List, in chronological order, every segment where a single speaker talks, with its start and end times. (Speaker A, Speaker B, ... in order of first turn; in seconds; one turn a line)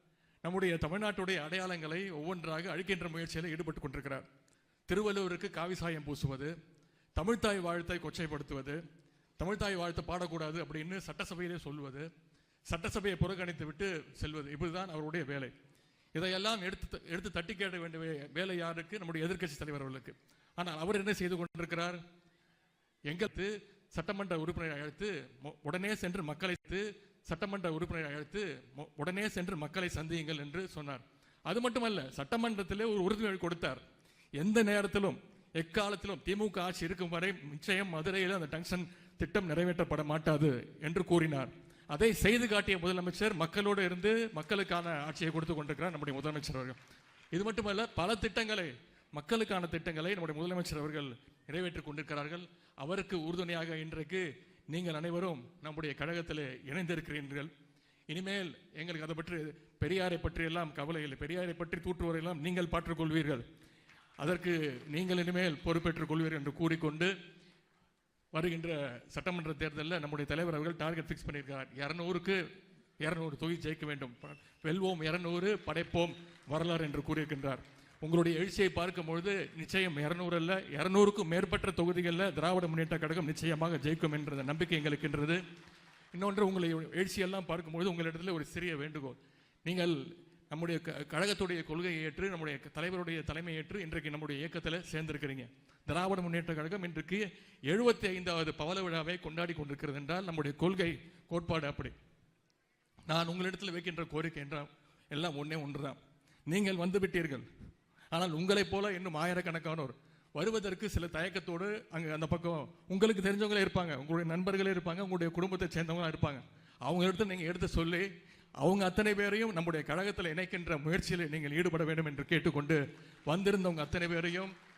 Speaker A: 0.4-4.2
Speaker A: 4.9-6.5
Speaker A: 7.2-8.8
Speaker A: 9.4-12.1
Speaker A: 12.7-15.5
Speaker A: 16.1-22.0
Speaker A: 23.1-33.8
Speaker A: 34.4-46.8
Speaker A: 47.3-57.5
Speaker A: 58.1-63.4
Speaker A: 64.2-67.1
Speaker A: 68.3-72.4
Speaker A: 73.0-85.4
Speaker A: 86.1-90.0
Speaker A: 90.5-101.9
Speaker A: 103.1-107.4
Speaker A: 108.1-118.0
Speaker A: 118.6-124.5